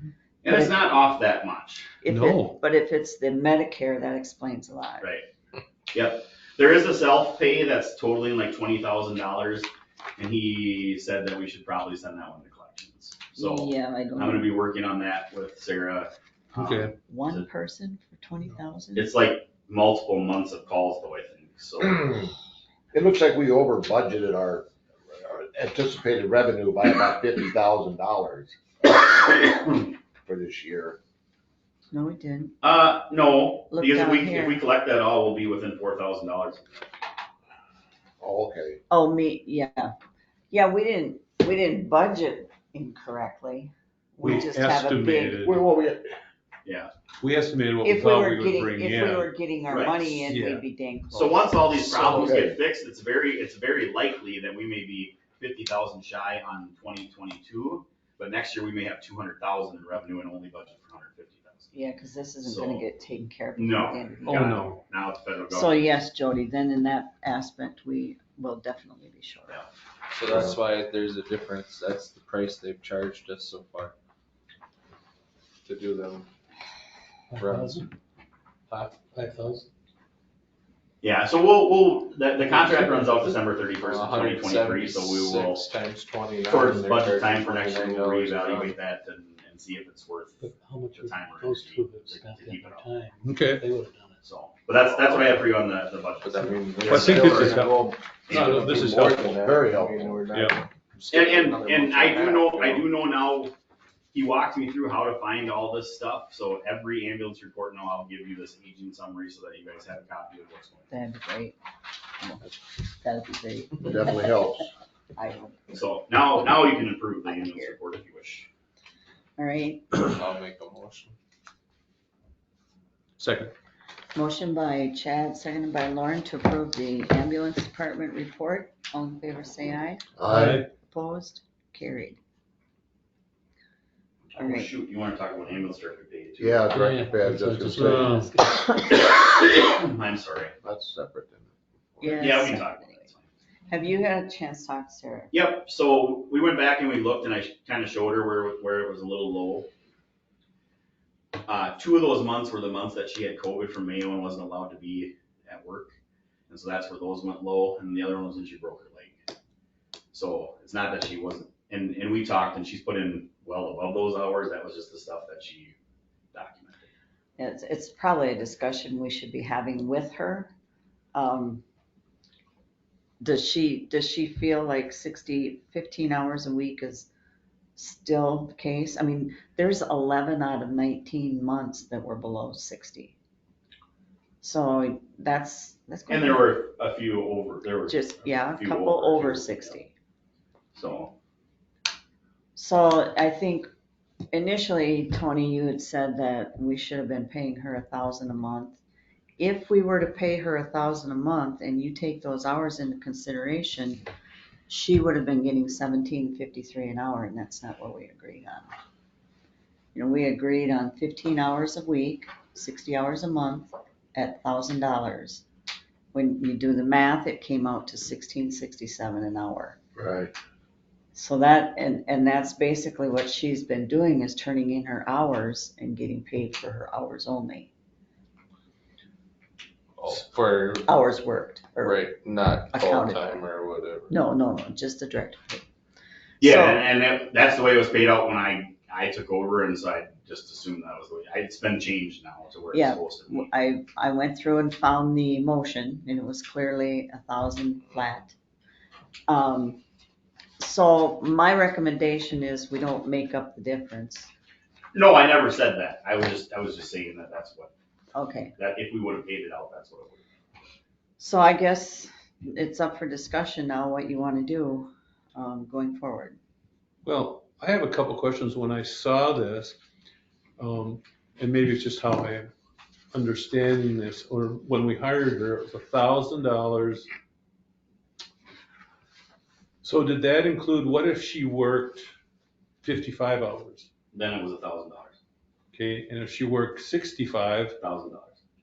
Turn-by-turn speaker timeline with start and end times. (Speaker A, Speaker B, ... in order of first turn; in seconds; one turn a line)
Speaker A: 0.4-1.9
Speaker B: 0.5-0.8
Speaker B: 2.0-5.0
Speaker C: 2.1-2.5
Speaker A: 5.9-17.4
Speaker B: 13.3-14.5
Speaker C: 16.5-16.9
Speaker B: 17.1-19.1
Speaker A: 18.9-22.1
Speaker D: 21.8-22.3
Speaker D: 22.9-29.5
Speaker D: 30.2-31.0
Speaker B: 31.9-32.5
Speaker A: 32.6-36.9
Speaker B: 33.7-34.6
Speaker D: 38.2-38.8
Speaker B: 38.9-39.9
Speaker B: 40.5-45.4
Speaker C: 44.2-45.6
Speaker D: 45.4-46.2
Speaker A: 46.6-46.9
Speaker C: 47.2-49.3
Speaker B: 47.8-52.3
Speaker A: 49.7-50.3
Speaker C: 50.3-50.6
Speaker A: 51.1-61.7
Speaker D: 52.0-52.5
Speaker B: 61.7-64.5
Speaker A: 62.4-62.9
Speaker A: 63.5-65.9
Speaker C: 64.2-64.8
Speaker B: 65.5-69.6
Speaker E: 70.1-73.9
Speaker D: 70.3-70.5
Speaker E: 75.6-76.3
Speaker E: 77.3-77.8
Speaker F: 77.4-77.9
Speaker F: 78.7-79.6
Speaker C: 78.7-79.6
Speaker A: 81.0-85.8
Speaker E: 83.8-88.8
Speaker A: 86.4-93.0
Speaker F: 90.4-94.2
Speaker C: 93.2-93.7
Speaker A: 94.2-97.5
Speaker E: 96.2-102.9
Speaker C: 96.8-99.3
Speaker A: 98.3-98.7
Speaker D: 98.8-100.3
Speaker C: 100.3-100.6
Speaker A: 101.1-103.5
Speaker A: 104.1-110.9
Speaker B: 110.9-111.6
Speaker B: 112.2-112.5
Speaker B: 113.0-114.3
Speaker D: 113.8-114.7
Speaker B: 115.2-115.8
Speaker A: 115.7-118.5
Speaker B: 117.2-117.7
Speaker B: 119.4-120.1
Speaker E: 120.0-121.2
Speaker C: 123.2-123.5
Speaker B: 124.1-132.2
Speaker D: 130.2-130.6
Speaker C: 130.2-130.7
Speaker A: 134.3-136.7
Speaker B: 134.3-134.7
Speaker D: 136.4-138.2
Speaker F: 136.7-138.4
Speaker C: 137.8-138.2
Speaker B: 138.0-139.0
Speaker A: 138.9-140.5
Speaker D: 140.6-142.3
Speaker B: 142.0-143.1
Speaker A: 142.1-143.3
Speaker B: 143.7-145.3
Speaker A: 145.3-149.7
Speaker A: 151.4-155.9
Speaker A: 156.5-159.2
Speaker A: 160.1-165.7
Speaker A: 166.3-166.9
Speaker B: 167.4-170.5
Speaker B: 171.1-171.6
Speaker B: 173.2-177.1
Speaker B: 177.8-183.2
Speaker B: 184.4-186.5
Speaker A: 186.1-189.8
Speaker B: 187.9-189.9
Speaker A: 190.7-191.1
Speaker B: 192.5-193.7
Speaker B: 194.3-198.8
Speaker B: 199.4-204.0
Speaker B: 204.7-208.7
Speaker B: 209.9-215.4
Speaker B: 216.1-219.8
Speaker D: 219.9-220.3
Speaker B: 221.1-227.7
Speaker E: 230.0-230.9
Speaker B: 230.8-232.1
Speaker E: 231.8-234.1
Speaker B: 232.7-233.4
Speaker B: 234.1-235.7
Speaker A: 236.4-243.5
Speaker B: 236.4-236.8
Speaker B: 242.7-248.3
Speaker B: 249.3-249.8
Speaker B: 250.6-254.3
Speaker A: 254.9-257.7
Speaker B: 258.1-258.5
Speaker A: 258.5-260.2
Speaker B: 261.2-266.4
Speaker C: 267.0-269.8
Speaker C: 270.6-272.5
Speaker C: 273.1-277.1
Speaker C: 279.8-282.1
Speaker C: 282.8-283.9
Speaker A: 284.1-285.1
Speaker C: 285.7-287.8
Speaker A: 287.8-288.4